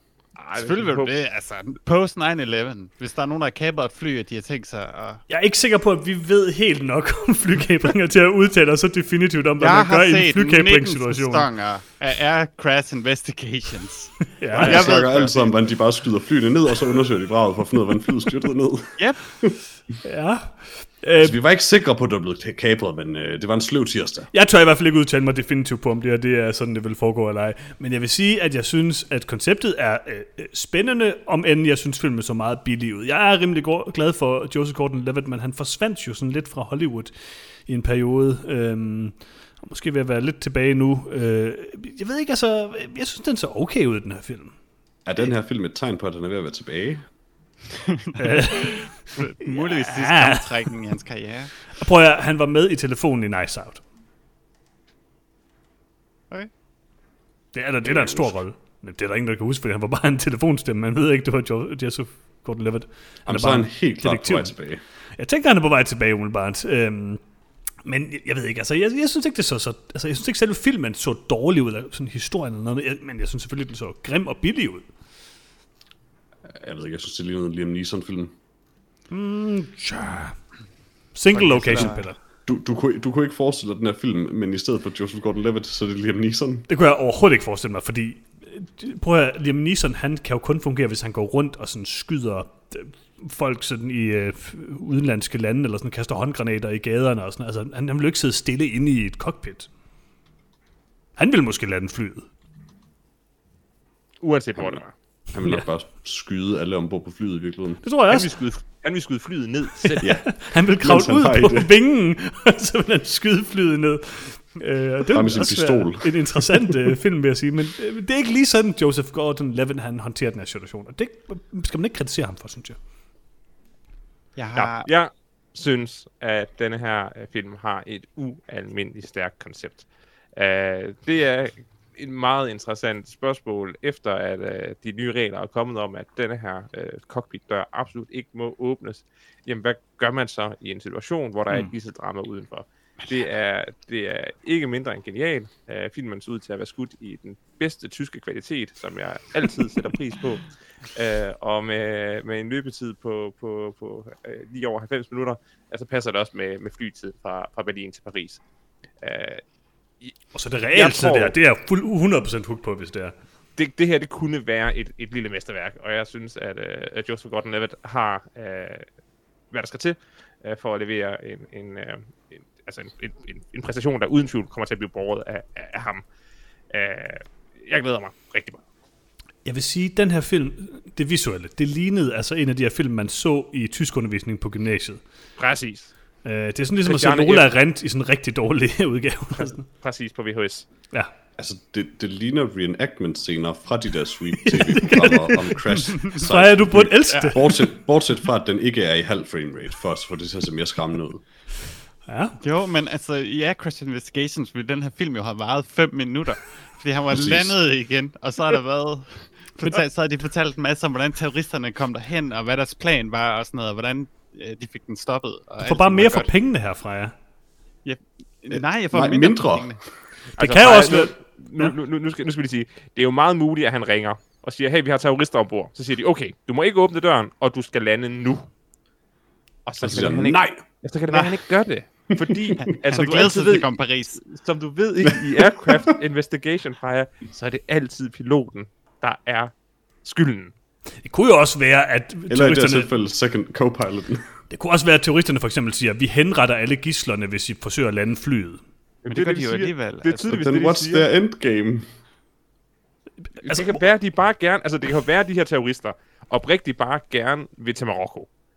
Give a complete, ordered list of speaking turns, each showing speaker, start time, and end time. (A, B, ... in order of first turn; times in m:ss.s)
0:00.4-0:01.1 A
0:00.5-0:05.2 B
0:05.3-0:11.5 C
0:09.6-0:15.6 B
0:14.4-0:15.0 C
0:14.5-0:19.6 D
0:19.0-0:19.2 B
0:20.0-0:21.4 C
0:21.2-0:24.3 D
0:24.3-0:44.6 C
0:45.0-0:47.1 D
0:48.0-0:51.6 B
0:48.2-0:50.7 C
0:51.7-0:53.8 C
0:57.5-1:04.6 C
0:57.8-0:58.4 D
1:03.3-1:04.8 D
1:05.2-1:07.2 C
1:07.8-1:14.9 C
1:16.5-1:18.3 D
1:19.1-1:20.4 C
1:21.1-1:22.2 C
1:21.3-1:22.1 B
1:21.7-1:26.7 D
1:26.7-1:39.7 C
1:41.2-1:42.3 C
1:44.2-1:44.9 A
1:45.3-1:47.8 D
1:47.8-1:48.4 C
1:48.1-1:50.1 A
1:49.8-2:02.8 C
1:50.0-1:51.7 D
1:55.1-1:56.7 D
2:04.4-2:04.9 B
2:04.6-2:38.4 A
2:39.0-2:39.4 A
2:40.3-2:43.1 C
2:40.7-2:41.4 A
2:43.6-2:48.9 A
2:49.5-2:56.0 A
2:56.7-2:58.6 A
2:59.4-3:05.0 C
3:05.4-3:05.9 A
3:06.2-3:09.6 C
3:06.8-3:07.5 A
3:09.4-3:10.7 A
3:11.4-3:21.2 D
3:14.4-3:17.7 C
3:22.1-3:22.4 C
3:22.4-3:36.3 B
3:27.1-3:27.6 D
3:35.6-3:37.2 C
3:37.8-3:39.8 B
3:38.5-3:40.0 D
3:40.3-3:48.5 A
3:40.4-3:41.7 C
3:49.7-4:00.5 A
3:49.8-3:50.6 D
3:52.2-3:52.5 D
3:52.6-3:54.2 B
3:55.2-3:55.9 D
4:01.0-4:02.9 C
4:02.3-4:04.3 D
4:04.5-4:08.6 C
4:09.0-4:11.1 A
4:09.1-4:10.3 B
4:10.2-4:11.9 D
4:13.2-4:13.8 C
4:13.4-4:18.3 A